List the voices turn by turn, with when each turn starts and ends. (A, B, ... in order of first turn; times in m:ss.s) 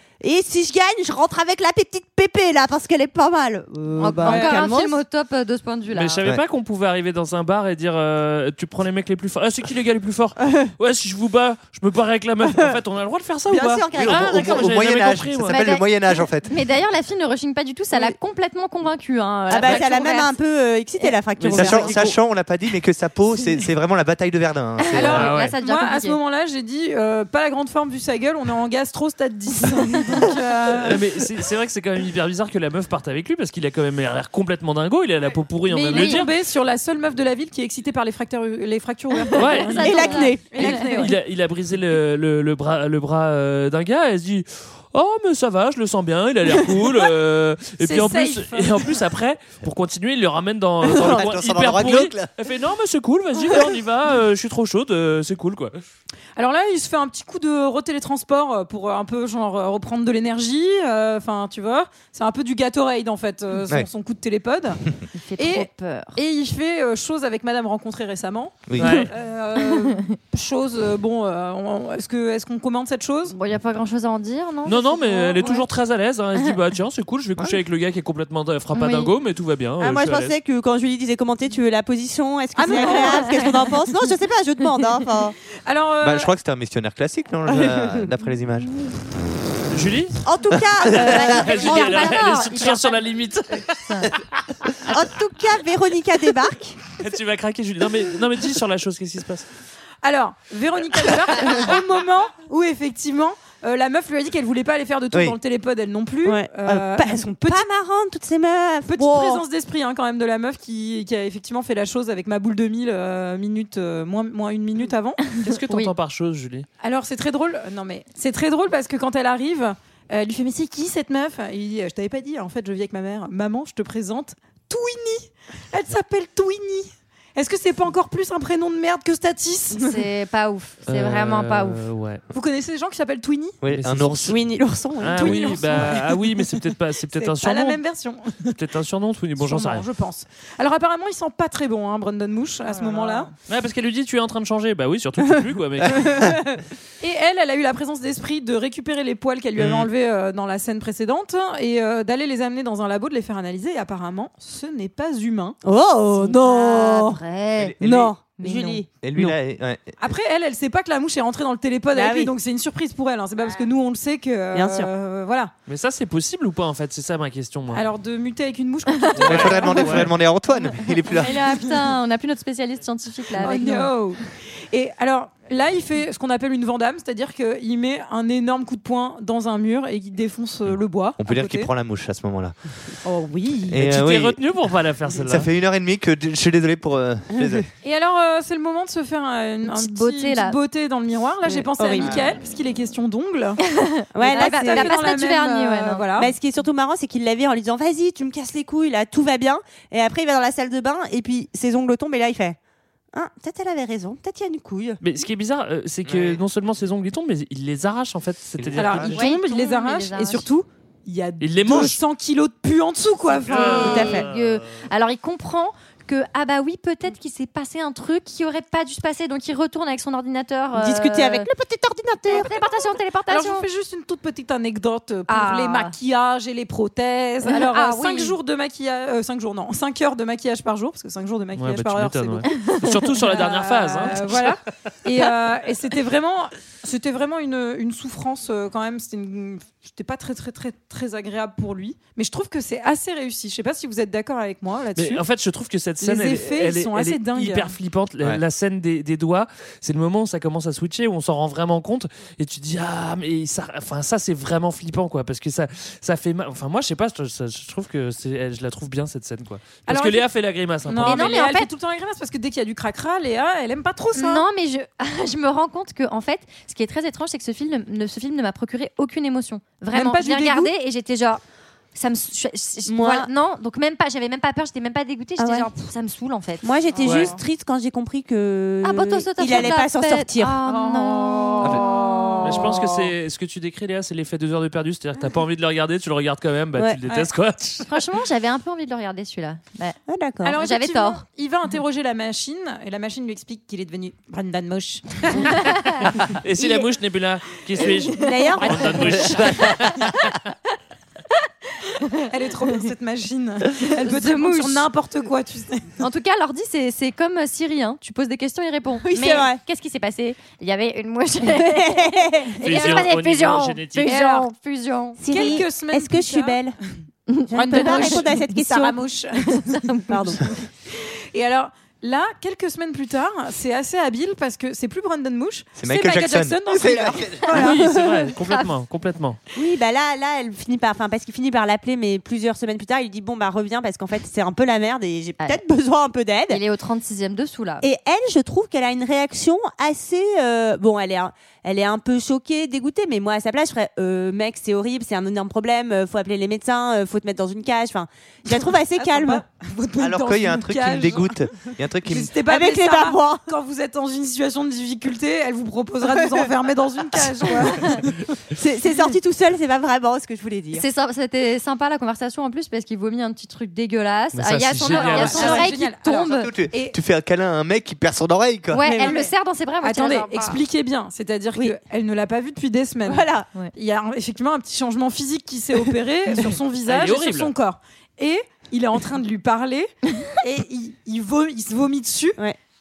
0:00.2-0:05.0 A
0:04.0-0:06.2 B
0:04.2-0:04.7 C
0:05.9-0:15.6 D
0:10.4-0:10.7 A
0:12.4-0:12.8 A
0:13.5-0:14.7 A
0:13.9-0:16.5 E
0:15.4-0:20.3 B
0:19.5-0:22.2 A
0:21.0-0:22.0 B
0:21.4-0:25.3 E
0:24.8-0:26.2 B
0:24.9-0:31.0 C
0:25.1-0:25.6 D
0:30.8-0:36.3 D
0:35.7-0:41.1 C
0:35.9-0:36.2 B
0:39.3-0:41.0 B
0:39.4-0:39.9 D
0:39.8-0:40.8 A
0:40.6-0:55.8 D
0:47.8-0:49.0 C
0:50.8-0:52.3 E
0:56.4-1:04.8 C
1:05.2-1:06.2 B
1:05.4-1:13.4 C
1:08.7-1:09.1 E
1:08.8-1:09.1 D
1:09.7-1:09.9 B
1:13.3-1:15.7 B
1:14.6-1:20.3 D
1:18.7-1:19.1 B
1:19.8-1:25.4 A
1:22.6-1:23.4 C
1:22.7-1:23.6 B
1:25.6-1:26.3 C
1:26.0-1:28.7 E
1:27.5-1:28.1 A
1:29.7-1:30.2 D
1:30.2-1:32.2 A
1:30.5-1:31.0 E
1:30.9-1:33.0 B
1:31.0-1:34.3 D
1:34.9-1:36.8 A
1:37.0-1:39.4 D
1:40.0-1:47.6 C
1:46.2-1:49.4 A
1:48.9-1:55.3 C
1:55.4-1:56.7 D
1:56.8-2:09.9 C
2:09.8-2:11.8 B
2:10.8-2:12.2 D
2:12.3-2:13.6 C
2:13.6-2:14.4 E
2:13.7-2:14.4 D
2:14.3-2:16.0 A
2:15.0-2:17.8 D
2:15.2-2:16.4 C
2:17.1-2:18.6 C
2:18.5-2:19.8 D
2:19.4-2:23.3 C
2:23.5-2:26.3 D
2:25.9-2:26.3 E
2:26.1-2:26.6 A
2:27.0-2:35.6 C
2:29.6-2:29.9 E
2:35.6-2:37.2 A
2:36.1-2:38.8 B
2:37.6-2:38.1 E
2:37.8-2:39.4 A
2:39.0-2:40.0 E
2:40.0-2:45.5 C
2:41.9-2:42.3 A
2:44.5-2:44.9 A
2:45.7-2:47.8 D
2:47.7-2:50.0 C
2:49.2-2:51.4 E
2:49.2-2:50.1 D
2:51.0-2:53.9 B
2:53.4-3:01.7 C
3:01.2-3:02.6 E
3:03.0-3:03.8 C
3:03.7-3:04.4 E
3:03.8-3:05.5 D
3:05.2-3:07.7 E
3:07.3-3:07.6 A
3:07.8-3:13.6 C
3:09.6-3:10.6 B
3:11.5-3:12.2 A
3:12.0-3:12.2 E
3:13.8-3:16.1 B
3:14.1-3:15.0 A
3:14.3-3:16.3 C
3:16.2-3:22.6 A
3:23.1-3:25.0 A
3:25.0-3:29.2 D
3:26.0-3:26.4 E
3:28.6-3:29.1 E
3:28.8-3:34.1 C
3:29.1-3:30.4 B
3:31.4-3:32.0 D
3:33.5-3:41.5 B
3:33.5-3:34.5 D
3:33.6-3:34.3 A
3:40.7-3:42.6 A
3:42.3-3:43.6 B
3:42.4-3:52.5 C
3:45.3-3:45.9 B
3:47.4-3:48.4 B
3:51.6-3:54.5 D
3:52.5-3:53.0 B
3:53.2-4:05.2 C
4:05.0-4:21.4 D
4:06.0-4:07.7 C
4:19.9-4:20.3 C
4:20.8-4:24.4 C
4:21.0-4:21.7 B
4:24.1-4:31.4 B
4:29.9-4:30.7 C
4:31.9-4:37.2 B
4:32.9-4:33.3 A
4:35.4-4:35.7 A
4:36.6-4:40.6 A
4:36.9-4:37.4 C
4:37.0-4:37.3 D
4:38.8-4:41.9 B
4:40.7-4:42.9 C
4:42.4-4:47.9 D
4:47.8-4:50.0 B
4:50.1-4:50.6 A
4:50.4-4:55.6 C
4:50.6-4:51.2 B
4:56.2-5:00.3 D
4:56.6-4:56.8 A
4:58.1-4:59.6 A
4:58.6-4:59.7 C
5:02.2-5:05.9 C
5:03.8-5:04.9 B
5:06.0-5:15.6 B
5:09.0-5:09.6 A
5:11.4-5:12.6 A
5:12.6-5:14.1 D
5:14.0-5:14.5 C
5:15.2-5:16.8 A
5:15.3-5:16.6 C
5:17.3-5:18.3 B
5:17.5-5:19.0 A
5:17.5-5:19.8 C
5:19.7-5:20.4 B
5:20.1-5:20.5 A
5:21.0-5:27.6 C
5:25.8-5:27.5 E
5:27.5-5:29.4 D
5:27.5-5:28.3 A
5:28.4-5:28.7 B
5:29.5-5:36.6 A
5:36.5-5:37.8 B
5:37.8-5:49.4 A
5:49.0-5:51.4 C
5:50.0-5:52.3 E
5:52.0-5:58.1 C
5:52.4-5:53.4 A
5:58.5-6:00.8 A
6:00.7-6:06.5 B
6:04.3-6:05.7 D
6:04.9-6:07.0 C
6:06.2-6:08.9 E
6:08.7-6:10.6 B
6:08.8-6:09.3 A
6:09.0-6:09.3 C
6:09.8-6:22.4 C
6:13.1-6:13.5 A
6:16.9-6:17.5 D